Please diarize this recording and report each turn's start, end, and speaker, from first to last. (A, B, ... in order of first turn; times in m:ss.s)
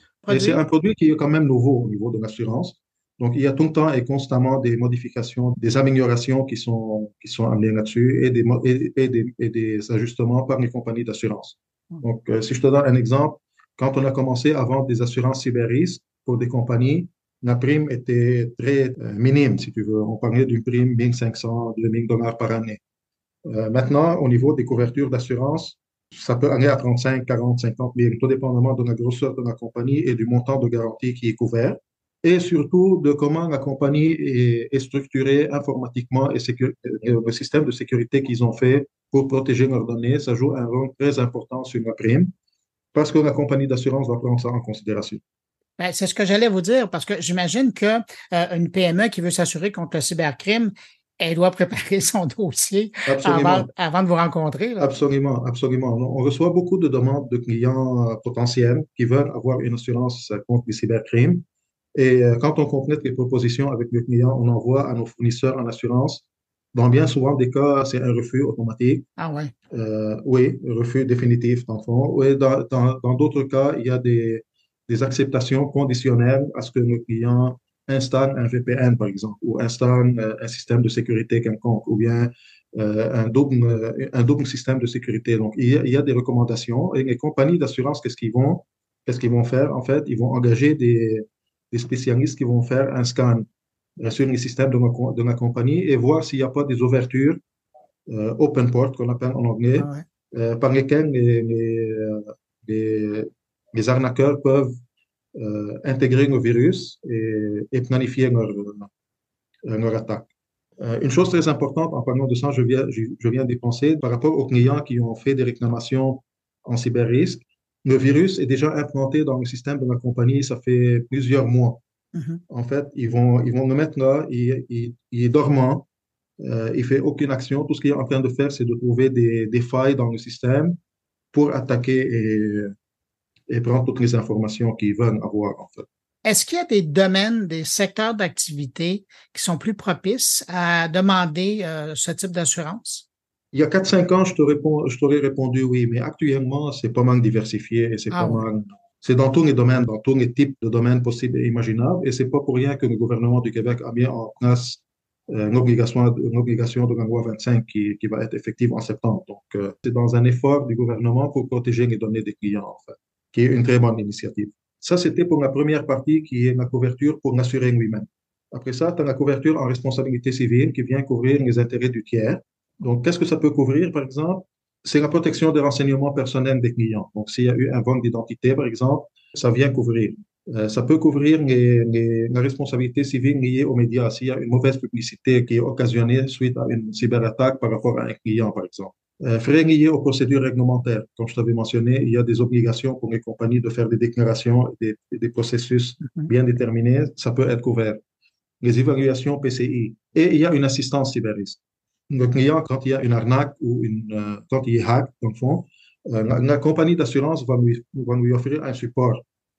0:00.2-0:00.6 A
0:00.3-0:22.8 B
0:23.4-0:42.3 B
0:42.9-0:45.2 B
0:45.8-0:54.9 A
0:53.1-0:53.7 B
0:54.8-1:09.1 B
1:09.2-1:09.5 A
1:09.7-1:33.5 B
1:34.0-1:37.4 B
1:38.1-1:44.8 B
1:39.8-1:40.0 A
1:45.3-1:48.9 B
1:49.6-1:50.3 B
1:50.8-2:01.8 B
2:02.1-2:02.4 A
2:02.5-2:05.9 B
2:06.4-2:10.8 B
2:11.3-2:12.7 B
2:13.5-2:15.9 B
2:16.2-2:23.1 A
2:23.5-3:18.0 B
2:28.1-2:28.4 A
3:16.0-3:16.3 A
3:18.6-3:29.2 B